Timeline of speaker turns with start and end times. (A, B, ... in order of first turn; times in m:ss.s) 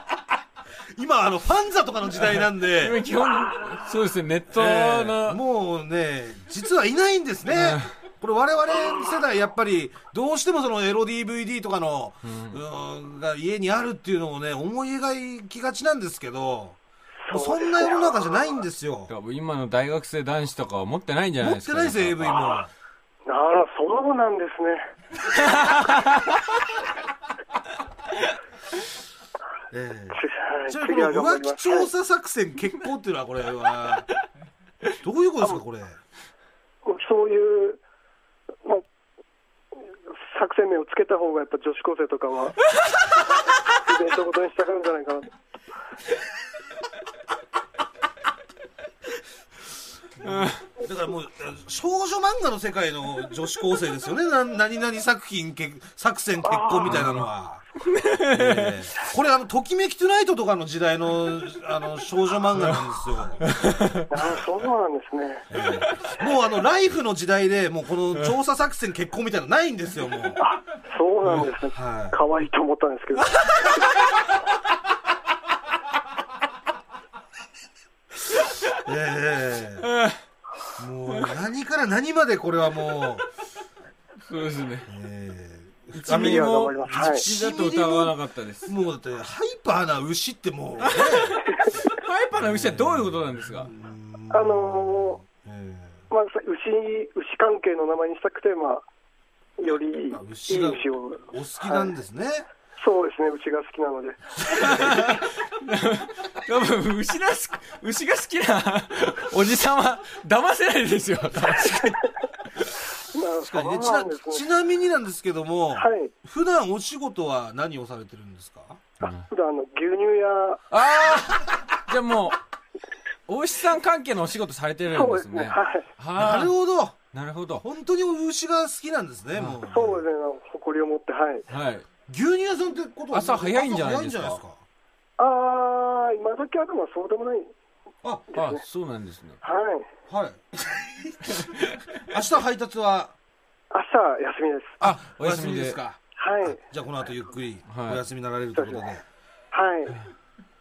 0:00.9-0:03.0 A
0:02.8-0:05.4 B
0:04.5-0:16.8 A
0:07.5-0:07.9 B
0:12.2-0:12.6 B
0:17.3-0:18.5 C
0:17.3-0:19.1 A
0:19.1-0:22.6 B
0:21.4-0:22.7 A
0:23.3-0:24.8 C
0:25.6-0:26.0 B
0:29.7-0:34.1 A
0:30.1-0:31.9 C
0:35.0-0:36.0 A
0:36.8-0:37.8 C
0:40.2-0:42.6 C
0:43.8-0:45.3 C
0:50.2-0:57.6 A
0:50.2-0:50.6 B
0:56.4-0:57.0 C
0:56.9-0:57.2 B
0:57.9-0:58.7 B
0:58.3-1:03.4 A
1:03.6-1:04.0 B
1:04.1-1:05.4 C
1:05.5-1:10.4 A
1:10.4-1:13.6 C
1:11.7-1:12.2 A
1:18.7-1:19.9 A
1:19.9-1:20.2 B
1:20.8-1:23.2 A
1:24.2-1:24.9 B
1:24.9-1:31.4 A
1:25.9-1:28.7 B
1:26.1-1:27.3 C
1:30.8-1:33.7 B
1:32.3-1:36.0 A
1:34.3-1:35.2 C
1:36.1-1:38.8 C
1:39.6-1:42.0 C
1:39.7-1:42.5 A
1:42.8-1:44.2 C
1:44.6-1:52.0 B
1:53.1-1:54.5 C
1:53.4-1:58.8 A
1:55.7-1:56.1 C
1:59.0-1:59.3 B
1:59.0-2:00.6 C
2:00.7-2:02.4 B
2:03.3-2:06.5 B
2:04.9-2:05.9 C
2:06.2-2:07.0 A
2:07.1-2:07.6 B
2:07.6-2:10.0 A
2:09.3-2:09.6 B
2:09.6-2:11.4 C
2:11.5-2:11.9 B
2:12.1-2:14.6 A
2:13.1-2:14.4 B
2:15.2-2:17.5 C
2:18.3-2:18.6 C
2:18.3-2:19.4 B
2:19.4-2:19.9 C
2:20.1-2:21.3 A
2:22.0-2:23.2 A
2:23.7-2:24.8 C
2:24.8-2:25.8 B
2:24.8-2:29.0 A
2:26.2-2:26.6 C
2:27.7-2:28.0 B
2:28.5-2:28.9 C
2:29.5-2:30.0 C